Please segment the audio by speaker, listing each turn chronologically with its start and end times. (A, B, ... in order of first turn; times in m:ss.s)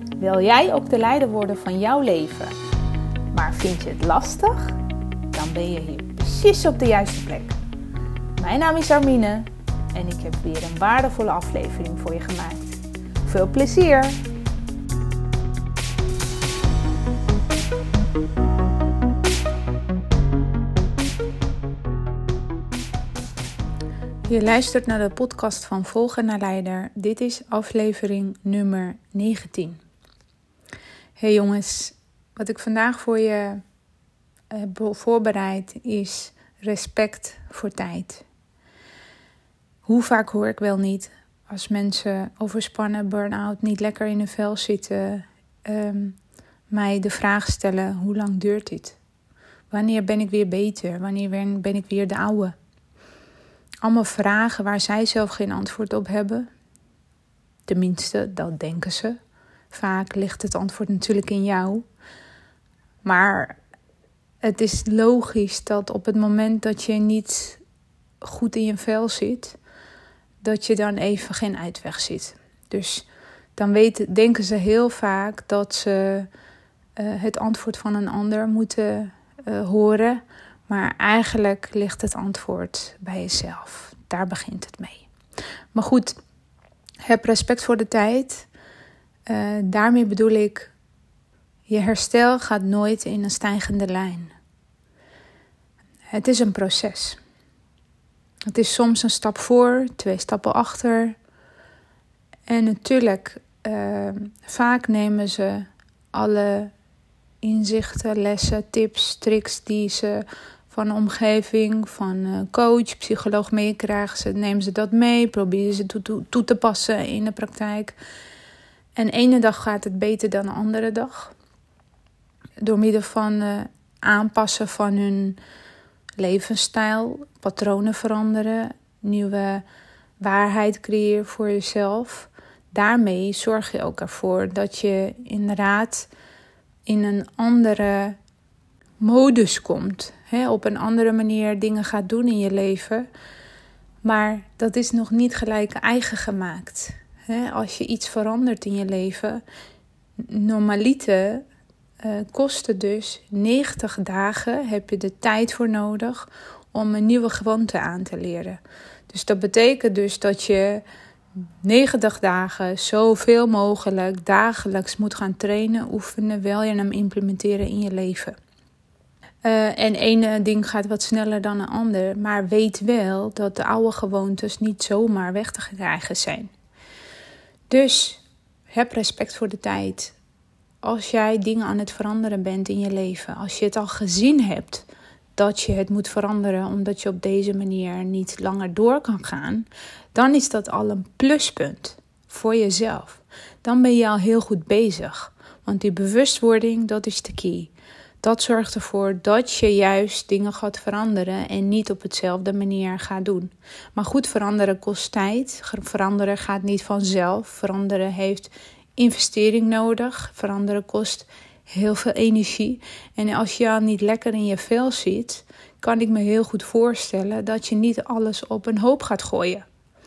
0:00.2-0:02.6 A
0:03.3-0:04.8 A
0:05.3-0:07.6 A
0:08.4-0:14.2 A
0:24.3-0:29.8 A
0:31.2-0:33.6 A
0:34.5-0:38.2 A
0:39.9-0:46.2 A
0:46.7-0:49.0 A
0:49.7-0:52.6 A
0:53.8-0:56.5 A
0:57.7-0:59.2 A
0:59.7-1:01.8 A
1:03.0-1:03.6 A
1:04.4-1:07.6 A
1:08.2-1:09.6 A
1:10.4-1:16.3 A
1:17.0-1:25.1 A
1:25.7-1:26.2 A
1:27.0-1:28.5 A
1:29.3-1:30.7 A
1:31.7-1:34.3 A
1:36.1-1:37.2 A
1:38.5-1:41.2 A
1:42.5-1:46.7 A
1:47.4-1:58.0 A
1:59.0-2:01.3 A
2:02.6-2:05.4 A
2:06.2-2:09.6 A
2:10.2-2:16.1 A
2:16.9-2:18.2 A
2:19.0-2:23.1 A
2:24.0-2:29.4 A
2:30.2-2:31.4 A
2:32.0-2:40.8 A
2:41.6-2:48.4 A
2:49.4-2:56.5 A
2:57.7-3:00.2 A
3:00.8-3:04.8 A
3:05.4-3:39.6 A